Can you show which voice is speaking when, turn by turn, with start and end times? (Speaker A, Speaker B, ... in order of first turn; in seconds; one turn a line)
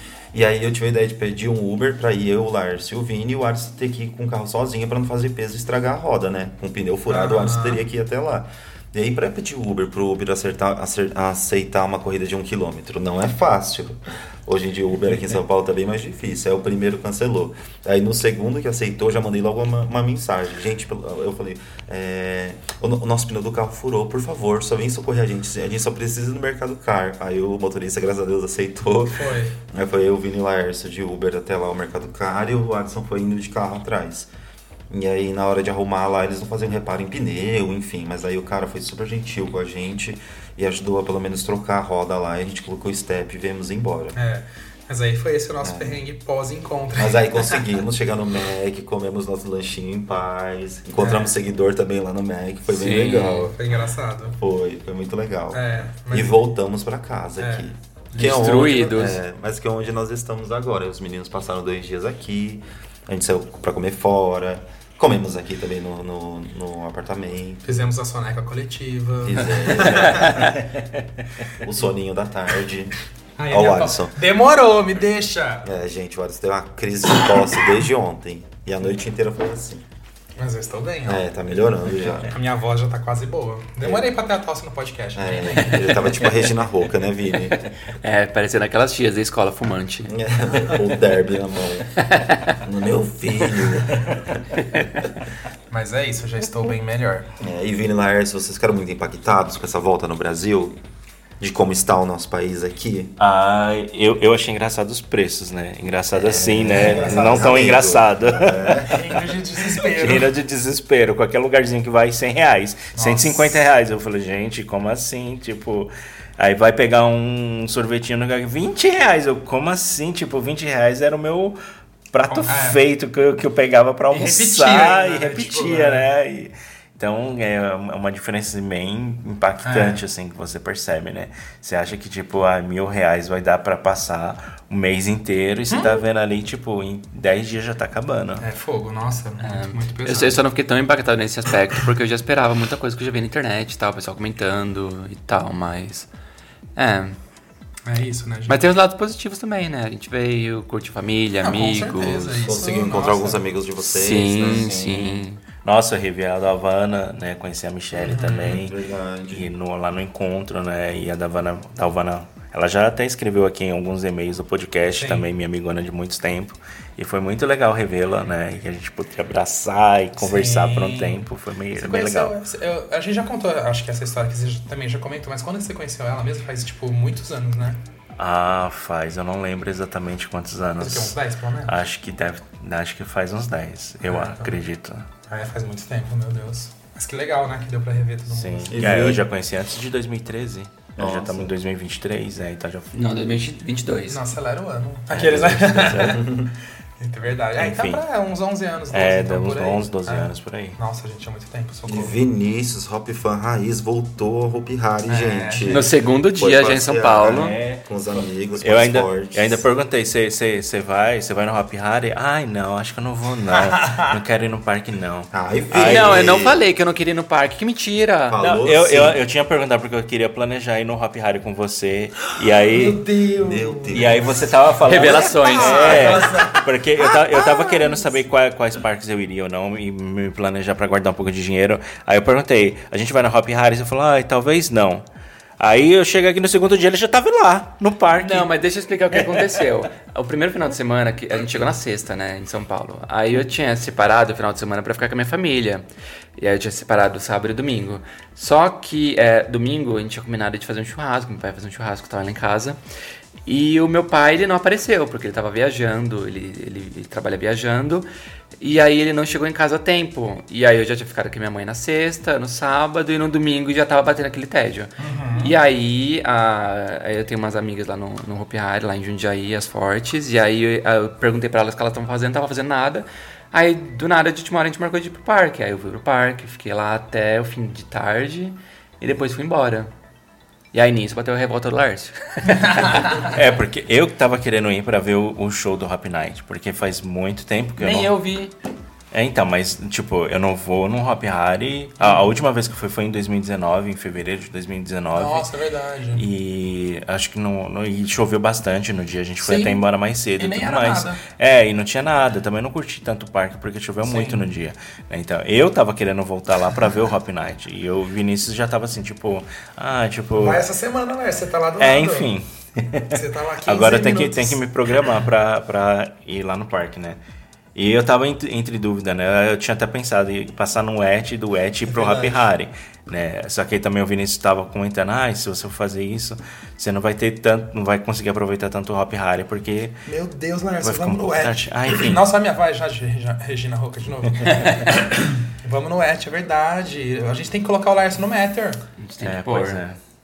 Speaker A: 0.3-34.3
Speaker B: 7.1-7.8
Speaker B: 29.1-29.6
Speaker A: 34.9-44.2
Speaker B: 44.2-47.6
Speaker A: 45.6-46.0
Speaker A: 47.0-53.5
Speaker B: 51.0-51.4
Speaker C: 52.7-53.5
Speaker B: 53.4-54.4
Speaker A: 54.4-67.7
Speaker B: 55.5-56.4
Speaker C: 58.1-59.2
Speaker B: 67.6-70.6
Speaker A: 69.2-70.5
Speaker A: 71.6-73.0
Speaker B: 73.4-75.7
Speaker A: 73.5-74.2
Speaker A: 75.6-79.8
Speaker B: 80.4-81.2
Speaker A: 81.1-82.3
Speaker B: 82.3-86.0
Speaker A: 83.8-84.1
Speaker A: 85.2-87.6
Speaker C: 88.0-90.1
Speaker A: 90.1-91.9
Speaker C: 92.0-92.6
Speaker A: 92.6-94.4
Speaker B: 95.7-97.3
Speaker A: 97.4-100.8
Speaker A: 101.4-103.1
Speaker D: 103.2-108.9
Speaker A: 106.2-109.0
Speaker B: 106.7-107.7
Speaker B: 108.9-110.3
Speaker D: 109.8-121.6
Speaker B: 113.0-113.6
Speaker D: 122.1-138.5
Speaker B: 122.3-122.8
Speaker B: 124.1-126.0
Speaker B: 129.6-130.0
Speaker B: 135.7-136.0
Speaker B: 138.4-140.4
Speaker C: 139.4-146.1
Speaker C: 146.8-147.2
Speaker B: 147.9-148.6
Speaker C: 148.5-152.3
Speaker B: 151.4-153.4
Speaker A: 152.4-155.2
Speaker C: 153.8-155.4
Speaker D: 155.6-158.8
Speaker B: 157.9-158.6
Speaker A: 158.4-159.5
Speaker D: 159.3-172.4
Speaker B: 165.0-165.3
Speaker B: 170.2-171.2
Speaker B: 171.8-177.8
Speaker D: 178.2-185.1
Speaker B: 180.8-181.8
Speaker B: 184.1-184.6
Speaker B: 185.3-188.8
Speaker D: 188.3-192.9
Speaker A: 188.7-189.2
Speaker A: 191.0-191.5
Speaker C: 192.9-194.2
Speaker B: 194.1-196.3
Speaker D: 195.1-196.2
Speaker A: 196.1-196.5
Speaker B: 197.0-202.2
Speaker D: 197.6-198.0
Speaker D: 198.9-200.8
Speaker A: 201.9-209.7
Speaker B: 205.1-205.8
Speaker C: 205.7-207.5
Speaker D: 207.3-216.3
Speaker B: 213.5-214.1
Speaker A: 215.3-216.6
Speaker C: 215.8-218.4
Speaker A: 218.3-219.2
Speaker D: 218.4-223.0
Speaker B: 222.7-224.3
Speaker A: 223.4-224.3
Speaker D: 223.9-235.0
Speaker C: 224.9-226.2
Speaker B: 224.9-228.1
Speaker D: 235.6-238.5
Speaker C: 238.2-245.9
Speaker D: 239.1-239.7
Speaker C: 246.4-252.8
Speaker C: 253.5-258.1
Speaker C: 258.6-279.9
Speaker B: 265.0-265.6
Speaker C: 280.7-283.0
Speaker B: 282.6-283.3
Speaker D: 283.2-288.1
Speaker C: 287.8-288.5
Speaker D: 289.1-295.5
Speaker B: 292.0-292.3
Speaker B: 295.1-296.3
Speaker D: 296.1-310.6
Speaker B: 299.4-299.9
Speaker B: 300.4-301.2
Speaker B: 304.0-304.4
Speaker B: 310.4-312.3
Speaker D: 311.8-313.1
Speaker B: 313.1-315.1
Speaker D: 313.6-317.2
Speaker D: 317.8-329.9
Speaker B: 321.9-322.4
Speaker B: 330.1-338.8
Speaker D: 330.8-332.2
Speaker C: 339.0-339.8
Speaker D: 339.2-340.0